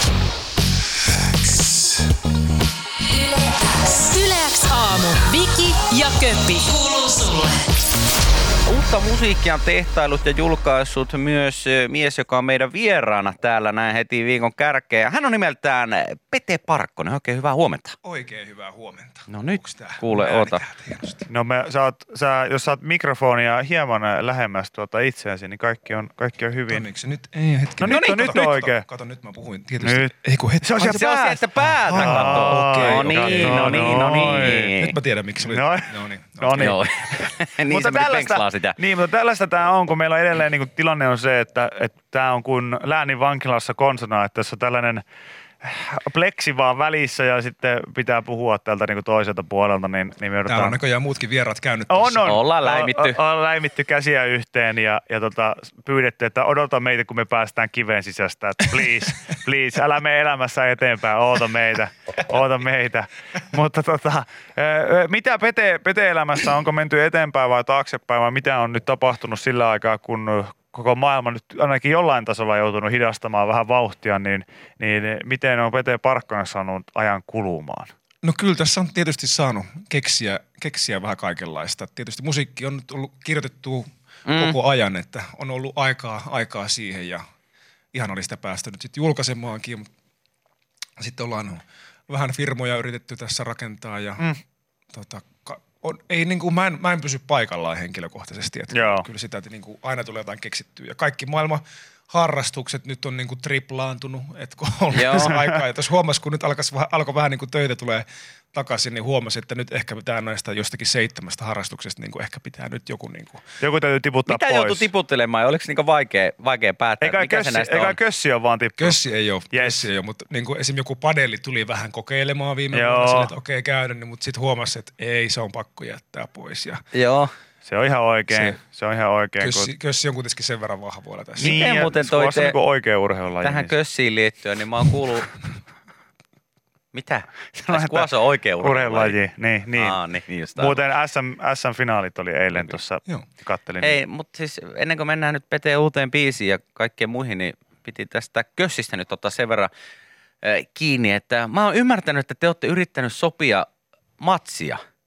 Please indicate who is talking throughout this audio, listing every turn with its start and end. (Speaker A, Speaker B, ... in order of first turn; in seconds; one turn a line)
Speaker A: 3.9-7.1
Speaker B: 8.7-18.0
Speaker C: 18.0-21.3
Speaker B: 19.3-20.6
Speaker D: 21.3-26.9
Speaker C: 26.7-36.8
Speaker D: 27.8-28.9
Speaker B: 27.8-28.4
Speaker D: 29.8-31.4
Speaker B: 30.9-35.0
Speaker D: 31.9-34.7
Speaker D: 35.4-45.0
Speaker B: 36.5-38.8
Speaker D: 45.6-50.8
Speaker C: 50.5-52.4
Speaker D: 51.9-77.9
Speaker B: 52.2-53.2
Speaker C: 78.2-87.2
Speaker B: 84.3-84.6
Speaker C: 87.9-89.8
Speaker C: 91.0-94.3
Speaker C: 94.9-113.4
Speaker D: 98.7-99.1
Speaker B: 104.9-105.4
Speaker D: 105.3-105.6
Speaker D: 113.6-114.9
Speaker B: 114.3-118.0
Speaker D: 117.0-119.9
Speaker C: 118.8-126.8
Speaker D: 122.7-123.3
Speaker B: 126.9-127.3
Speaker D: 127.7-129.7
Speaker C: 128.3-128.6
Speaker C: 129.4-131.6
Speaker B: 131.4-132.6
Speaker D: 131.4-133.8
Speaker B: 133.4-135.3
Speaker B: 136.9-139.2
Speaker D: 137.6-140.0
Speaker B: 139.8-140.8
Speaker D: 140.5-144.0
Speaker B: 143.8-149.7
Speaker B: 150.4-154.8